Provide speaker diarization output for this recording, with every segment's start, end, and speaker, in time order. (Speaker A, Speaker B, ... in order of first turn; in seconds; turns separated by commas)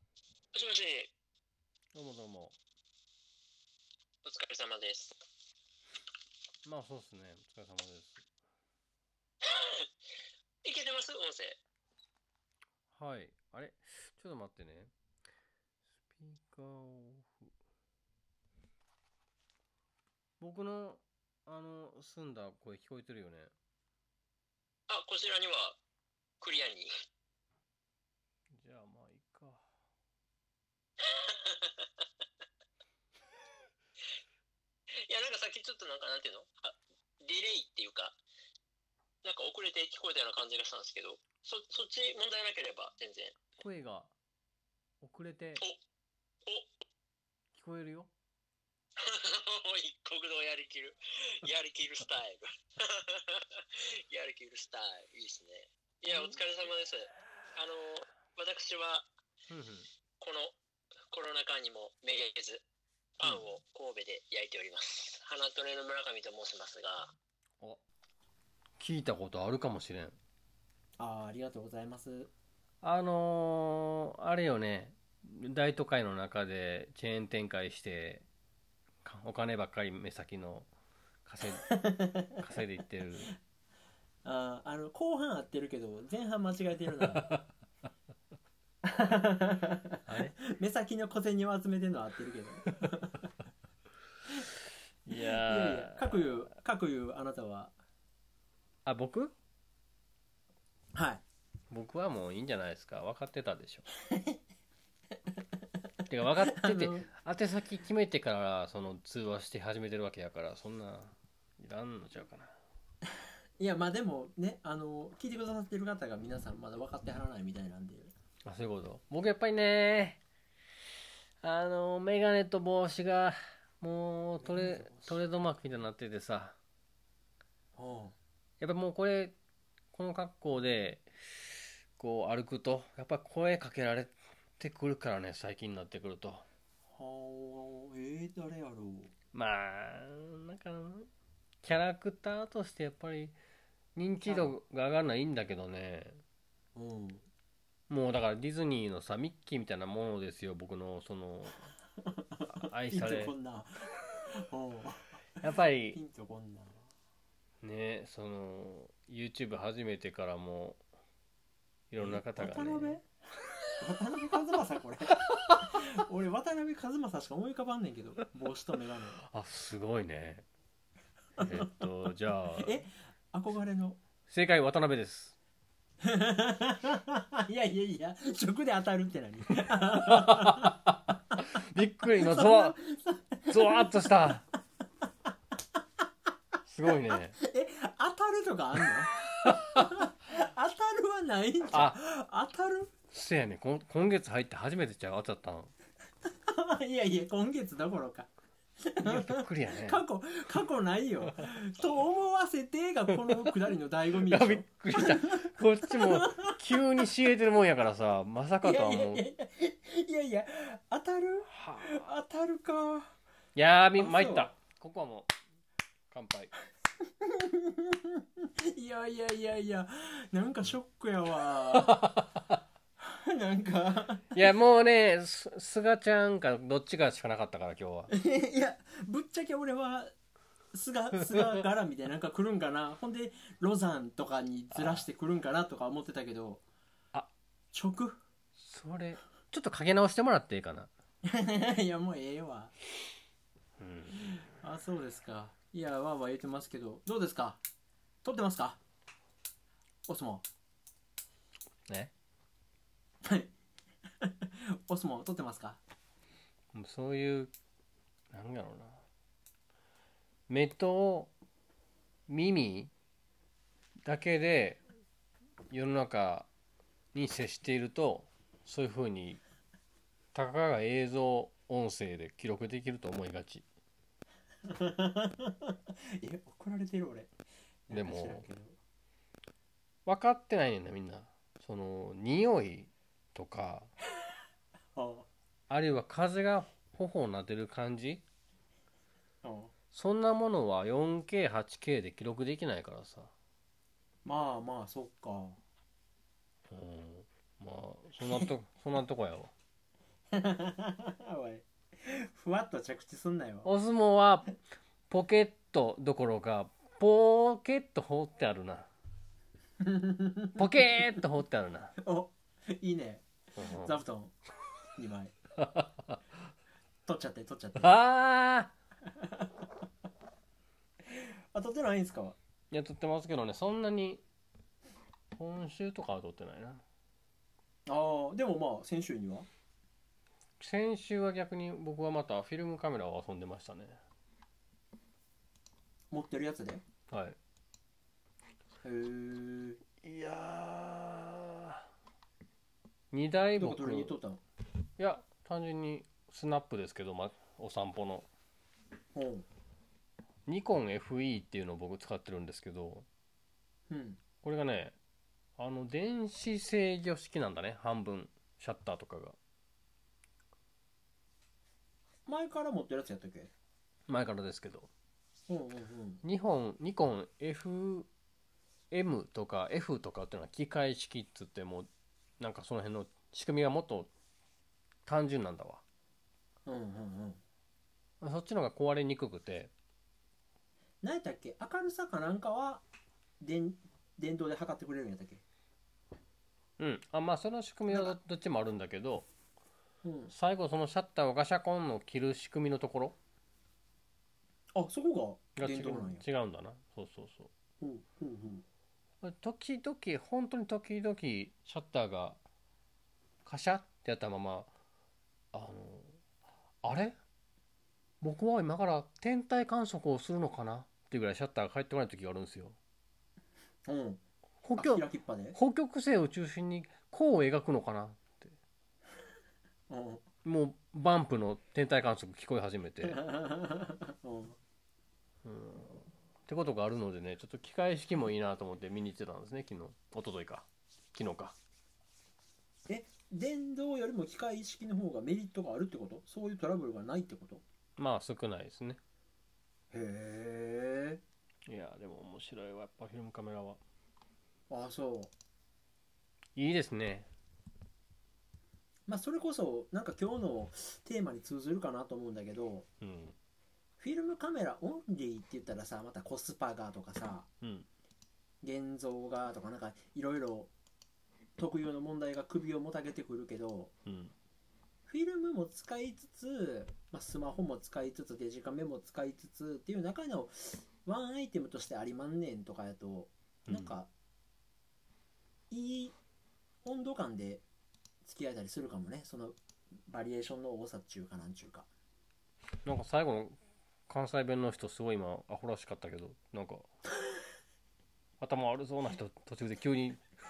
Speaker A: 0.5-1.1, Speaker B: 1.9-2.6, Speaker A: 4.2-5.2, Speaker B: 6.6-8.2, Speaker A: 9.4-9.9, Speaker A: 10.6-11.6, Speaker B: 12.9-14.9, Speaker B: 16.1-17.5, Speaker B: 20.4-23.5, Speaker A: 24.9-25.8, Speaker A: 26.4-26.9, Speaker B: 28.5-29.7, Speaker A: 31.0-32.0, Speaker A: 35.0-38.2, Speaker A: 39.2-43.4, Speaker B: 43.6-44.1, Speaker B: 45.0-45.6, Speaker B: 47.5-48.1, Speaker A: 49.0-59.1, Speaker C: 56.1-56.4, Speaker B: 59.5-59.9, Speaker A: 60.2-60.5, Speaker A: 61.1-62.6, Speaker A: 63.2-67.1, Speaker B: 68.8-70.2, Speaker C: 71.0-72.3, Speaker B: 72.8-78.2, Speaker B: 79.0-80.7, Speaker B: 81.2-81.7, Speaker C: 81.5-82.4, Speaker B: 82.3-83.3, Speaker C: 84.2-87.3, Speaker C: 88.8-93.3, Speaker B: 90.1-90.3, Speaker C: 95.0-97.7, Speaker B: 95.1-96.3, Speaker B: 98.8-99.3, Speaker C: 100.9-101.2, Speaker B: 101.7-103.9, Speaker C: 104.0-104.4, Speaker B: 106.1-112.5, Speaker C: 106.4-107.1, Speaker C: 113.6-118.1, Speaker B: 118.4-120.2, Speaker B: 121.4-126.6, Speaker C: 124.4-125.2, Speaker C: 127.7-128.1, Speaker B: 128.6-129.3, Speaker B: 129.9-136.4, Speaker C: 136.9-139.1, Speaker B: 139.3-141.1, Speaker B: 141.6-143.3, Speaker B: 143.9-146.2, Speaker C: 144.2-144.5, Speaker C: 146.7-147.2, Speaker B: 147.9-151.7, Speaker C: 152.1-156.8, Speaker B: 152.6-153.3, Speaker B: 155.4-156.0, Speaker B: 157.6-160.8, Speaker B: 161.9-163.0, Speaker C: 162.0-163.1, Speaker C: 163.8-169.2, Speaker B: 169.2-170.4, Speaker C: 171.4-171.9, Speaker B: 171.4-172.8, Speaker C: 172.5-174.0, Speaker B: 174.3-175.3, Speaker C: 176.0-180.8, Speaker B: 179.9-182.8, Speaker C: 182.1-184.4, Speaker B: 183.5-184.4, Speaker B: 186.7-187.3, Speaker C: 186.8-192.9, Speaker B: 189.4-189.9, Speaker B: 191.7-192.0, Speaker B: 193.1-195.7, Speaker C: 196.3-198.3, Speaker C: 198.8-207.1, Speaker B: 199.0-200.0, Speaker B: 203.1-203.6, Speaker B: 204.2-209.2, Speaker C: 208.6-213.1, Speaker B: 211.5-212.1, Speaker B: 213.6-215.3, Speaker C: 214.0-214.5, Speaker B: 216.1-216.5, Speaker C: 217.0-222.2, Speaker B: 221.8-222.6, Speaker C: 223.0-224.4, Speaker B: 224.3-228.1, Speaker C: 228.1-230.1, Speaker C: 230.7-236.6, Speaker B: 234.7-235.0, Speaker C: 237.7-238.2, Speaker B: 238.6-240.9, Speaker C: 241.2-242.7, Speaker B: 243.8-244.4, Speaker C: 244.1-247.6, Speaker C: 248.2-248.8, Speaker C: 250.1-250.4, Speaker B: 251.9-252.1, Speaker C: 253.2-253.5, Speaker C: 254.2-255.8, Speaker B: 256.7-257.5, Speaker B: 258.3-259.0, Speaker B: 260.5-261.3, Speaker B: 262.3-262.9, Speaker B: 264.0-264.8, Speaker B: 265.7-266.5, Speaker B: 267.1-269.4, Speaker B: 270.3-273.6, Speaker C: 274.6-277.3, Speaker C: 277.9-278.8, Speaker B: 277.9-278.4, Speaker B: 280.1-283.9, Speaker C: 284.9-285.3, Speaker B: 285.7-288.2, Speaker C: 289.4-289.7, Speaker B: 289.9-293.3, Speaker C: 294.2-295.6, Speaker B: 296.7-299.5, Speaker C: 298.2-298.5, Speaker C: 300.3-303.7, Speaker B: 303.6-304.6, Speaker B: 305.1-308.9, Speaker C: 309.8-311.2, Speaker B: 310.6-311.9, Speaker C: 312.0-314.3, Speaker B: 313.6-314.0, Speaker C: 314.9-315.3, Speaker B: 315.6-316.2, Speaker C: 317.0-317.9, Speaker B: 317.8-318.7, Speaker C: 319.1-319.7, Speaker C: 321.1-322.4, Speaker B: 322.7-324.2, Speaker B: 325.3-326.8, Speaker C: 327.9-329.5, Speaker B: 330.6-334.0, Speaker C: 336.1-336.8, Speaker B: 337.1-337.4, Speaker C: 338.8-339.8, Speaker B: 340.0-341.8, Speaker B: 343.1-344.2, Speaker C: 343.6-344.4, Speaker B: 345.0-348.3, Speaker C: 349.1-349.4, Speaker B: 350.5-353.1, Speaker C: 353.9-354.2, Speaker B: 354.4-354.9, Speaker B: 355.6-359.4, Speaker C: 362.2-363.5, Speaker B: 364.1-364.9, Speaker C: 365.5-366.2, Speaker B: 366.2-368.1, Speaker B: 368.9-374.1, Speaker B: 375.1-375.8, Speaker C: 376.6-377.4, Speaker B: 378.2-379.7, Speaker C: 381.0-382.8, Speaker C: 383.4-385.4, Speaker B: 386.8-389.3, Speaker C: 387.9-388.2, Speaker C: 390.0-390.3, Speaker B: 390.3-393.1, Speaker C: 394.7-396.2, Speaker B: 395.6-397.5, Speaker C: 397.8-398.6, Speaker B: 399.2-402.4, Speaker B: 403.4-404.7, Speaker B: 405.5-406.2, Speaker B: 406.8-407.2, Speaker B: 408.2-412.8, Speaker C: 413.8-414.2, Speaker B: 414.6-418.5, Speaker C: 414.8-415.6, Speaker C: 419.9-420.2, Speaker B: 420.4-423.2, Speaker C: 423.0-424.6, Speaker B: 425.4-431.6, Speaker C: 432.9-437.6, Speaker B: 438.0-439.0, Speaker C: 439.9-441.2, Speaker B: 441.7-443.8, Speaker C: 444.7-445.3, Speaker B: 446.6-447.3, Speaker C: 449.1-452.9, Speaker B: 453.0-453.4, Speaker C: 454.0-457.5, Speaker B: 457.6-457.9, Speaker C: 458.6-460.7, Speaker C: 461.6-463.9, Speaker B: 464.1-464.3, Speaker C: 465.1-474.1, Speaker B: 473.7-473.9, Speaker C: 475.7-476.1, Speaker C: 476.8-477.6, Speaker C: 478.2-481.9, Speaker B: 482.8-486.9, Speaker B: 488.4-490.3